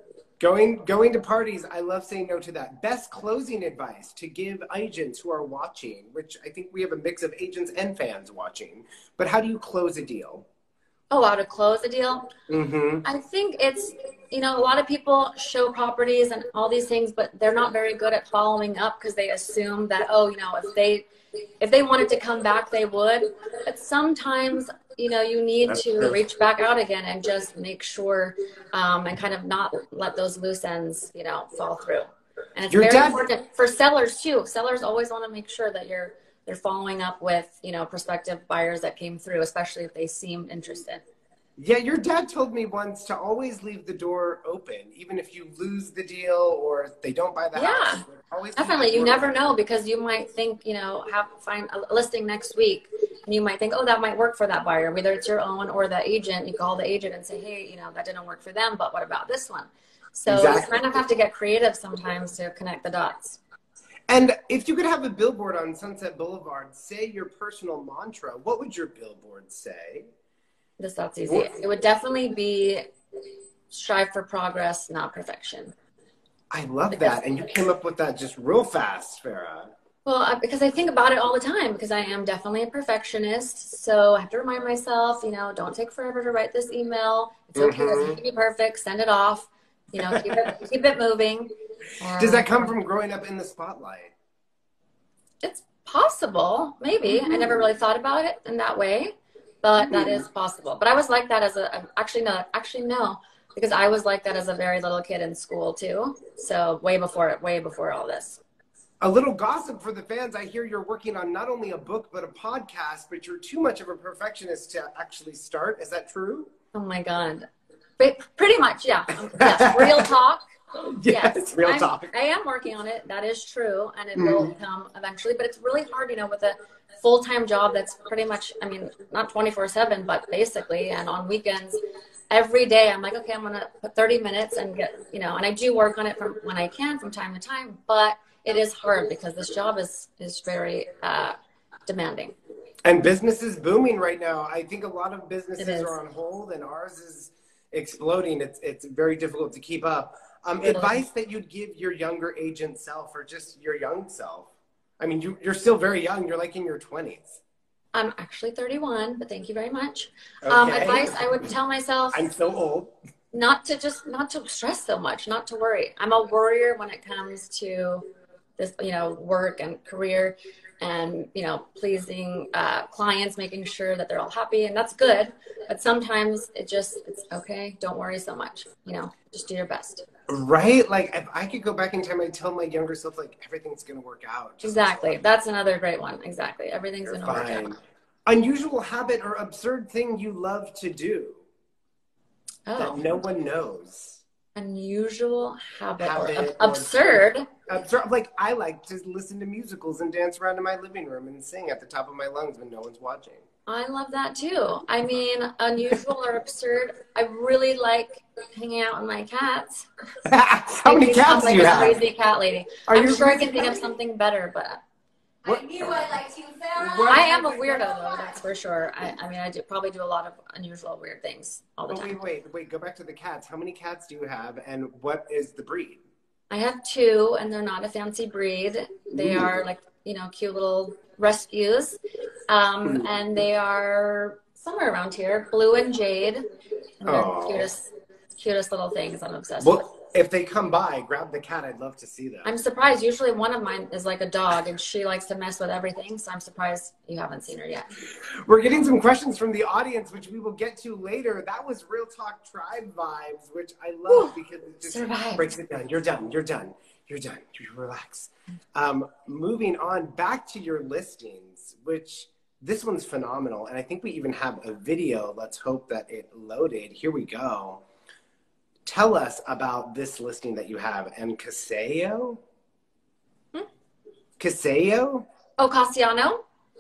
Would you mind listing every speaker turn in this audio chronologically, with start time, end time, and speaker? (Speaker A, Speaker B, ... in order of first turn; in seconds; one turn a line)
Speaker A: 0.4-10.5
Speaker B: 11.1-12.3
Speaker A: 12.5-13.1
Speaker B: 13.0-21.1
Speaker B: 21.6-41.0
Speaker A: 25.7-26.1
Speaker A: 32.7-33.2
Speaker A: 41.6-49.4
Speaker B: 47.5-48.0
Speaker B: 48.5-63.4
Speaker A: 60.3-60.8
Speaker A: 64.1-70.1
Speaker B: 70.8-72.8
Speaker A: 71.2-71.5
Speaker B: 73.7-75.7
Speaker A: 76.5-79.7
Speaker B: 76.9-77.2
Speaker B: 80.0-92.8
Speaker A: 87.5-88.2
Speaker A: 90.0-90.5
Speaker A: 92.2-94.1
Speaker B: 95.4-108.4
Speaker A: 97.0-97.6
Speaker A: 99.8-100.2
Speaker A: 109.0-116.5
Speaker B: 116.7-117.5
Speaker B: 118.0-120.4
Speaker A: 119.2-120.1
Speaker A: 120.8-122.1
Speaker B: 121.1-131.8
Speaker A: 124.1-124.5
Speaker B: 132.3-142.3
Speaker A: 142.8-157.4
Speaker B: 145.6-146.0
Speaker B: 150.6-151.0
Speaker B: 157.9-162.3
Speaker A: 160.4-161.3
Speaker A: 162.1-162.9
Speaker B: 163.3-168.0
Speaker B: 168.6-180.0
Speaker A: 180.3-185.2
Speaker B: 184.6-187.8
Speaker A: 187.1-191.4
Speaker B: 192.7-193.0
Speaker A: 192.8-194.2
Speaker B: 194.5-197.5
Speaker A: 196.0-203.4
Speaker B: 203.7-209.9
Speaker A: 210.2-212.0
Speaker B: 210.9-214.8
Speaker A: 212.9-213.8
Speaker A: 215.5-216.0
Speaker C: 215.5-218.3
Speaker A: 216.8-217.7
Speaker B: 217.1-222.2
Speaker A: 221.9-226.0
Speaker B: 226.5-236.4
Speaker A: 229.1-229.5
Speaker B: 237.0-239.9
Speaker A: 237.0-237.7
Speaker A: 239.6-242.5
Speaker B: 242.4-247.9
Speaker A: 248.4-267.8
Speaker B: 254.1-254.3
Speaker B: 254.9-255.4
Speaker A: 268.9-272.4
Speaker A: 274.4-275.2
Speaker B: 275.6-276.4